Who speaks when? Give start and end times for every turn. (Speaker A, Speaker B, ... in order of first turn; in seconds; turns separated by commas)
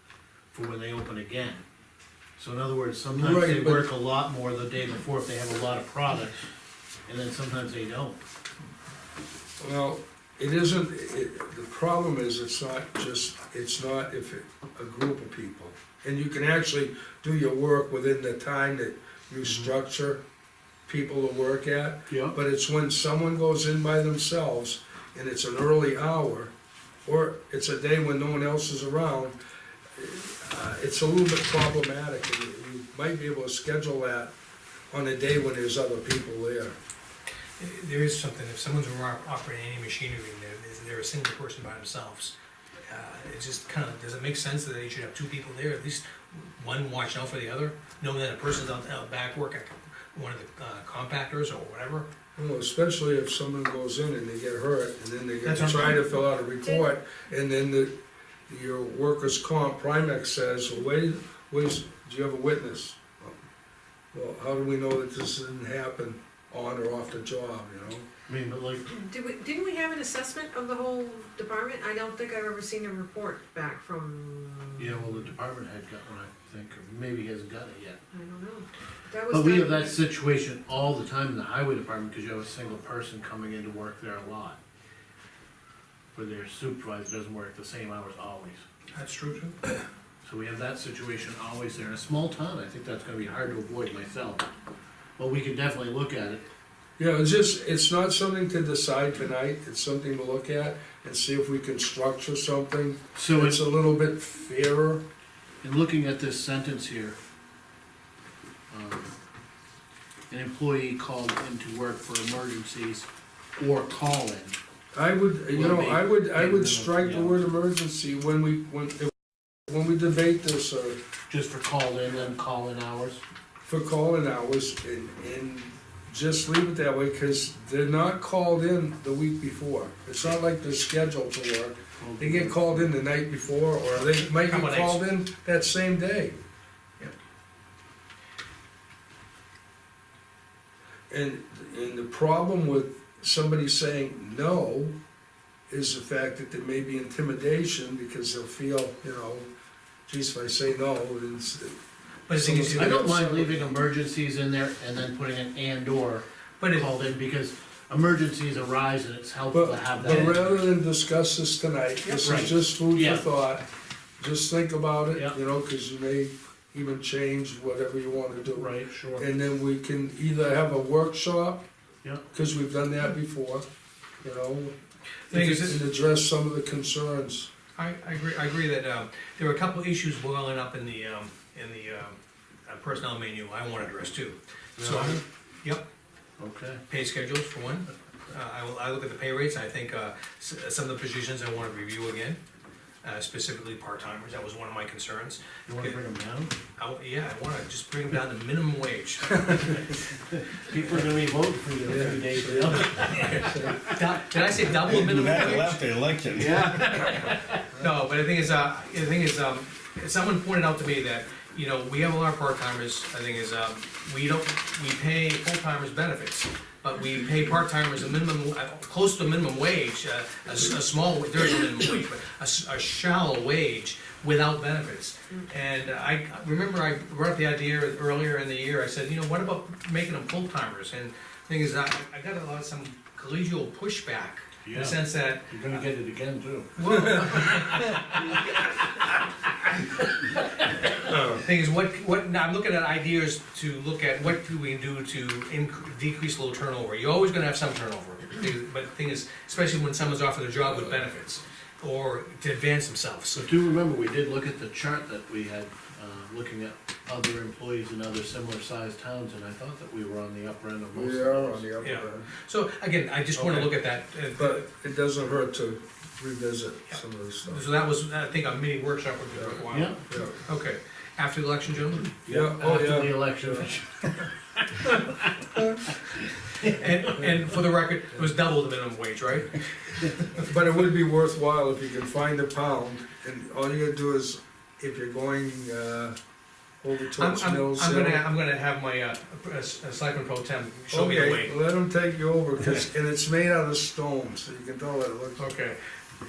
Speaker A: 0.5-1.6, Speaker A: 2.4-6.4, Speaker B: 3.2-3.9, Speaker A: 7.1-8.2, Speaker B: 9.6-20.2, Speaker A: 19.4-19.7, Speaker B: 20.9-26.5, Speaker A: 22.1-22.4, Speaker B: 27.0-29.4, Speaker B: 29.9-34.3, Speaker B: 34.9-36.7, Speaker C: 37.6-42.3, Speaker C: 42.9-52.1, Speaker B: 52.4-58.0, Speaker C: 55.4-56.1, Speaker B: 58.5-63.4, Speaker B: 64.1-68.0, Speaker A: 68.3-68.9, Speaker D: 68.9-75.0, Speaker A: 74.8-78.0, Speaker D: 78.1-80.0, Speaker A: 79.3-84.6, Speaker A: 86.1-88.6, Speaker C: 88.9-89.9, Speaker A: 90.2-94.5, Speaker A: 95.2-96.4, Speaker B: 97.0-105.0, Speaker A: 103.1-103.6, Speaker A: 105.6-107.2, Speaker A: 108.7-109.1, Speaker A: 110.3-114.6, Speaker B: 114.9-119.1, Speaker A: 115.5-117.4, Speaker B: 119.7-121.0, Speaker A: 121.3-123.2, Speaker B: 123.7-136.3, Speaker A: 132.0-132.8, Speaker C: 134.2-135.0, Speaker B: 141.1-144.9, Speaker B: 145.7-149.5, Speaker B: 150.1-151.8, Speaker C: 152.3-153.0, Speaker B: 152.3-153.7, Speaker A: 152.7-160.6, Speaker C: 156.6-156.9, Speaker B: 159.5-163.7, Speaker C: 160.0-160.3, Speaker C: 162.0-162.4, Speaker A: 162.2-163.2, Speaker B: 164.2-171.6, Speaker A: 168.5-169.2, Speaker B: 172.3-173.7, Speaker B: 174.2-174.7, Speaker C: 175.3-175.8, Speaker B: 175.3-177.5, Speaker C: 177.8-185.8, Speaker A: 184.8-185.2, Speaker A: 186.4-186.8, Speaker C: 186.9-192.4, Speaker C: 193.0-196.0, Speaker A: 195.7-196.5, Speaker C: 196.8-199.9, Speaker A: 200.6-204.0, Speaker B: 201.8-203.9, Speaker C: 203.1-206.0, Speaker A: 204.7-205.5, Speaker E: 204.8-207.2, Speaker A: 206.3-207.6, Speaker C: 207.7-235.9, Speaker A: 234.6-238.5, Speaker C: 236.8-239.0, Speaker B: 241.0-241.4, Speaker C: 241.1-253.4, Speaker A: 253.3-261.6, Speaker B: 260.9-262.3, Speaker C: 261.8-264.6, Speaker B: 263.4-263.7, Speaker B: 264.4-267.7, Speaker C: 266.9-272.1, Speaker B: 269.4-270.4, Speaker A: 269.7-270.0, Speaker A: 272.2-276.7, Speaker B: 272.3-273.7, Speaker C: 276.6-280.4, Speaker B: 280.4-286.1, Speaker B: 286.8-288.2, Speaker C: 287.1-291.5, Speaker B: 290.9-295.4, Speaker C: 295.4-295.8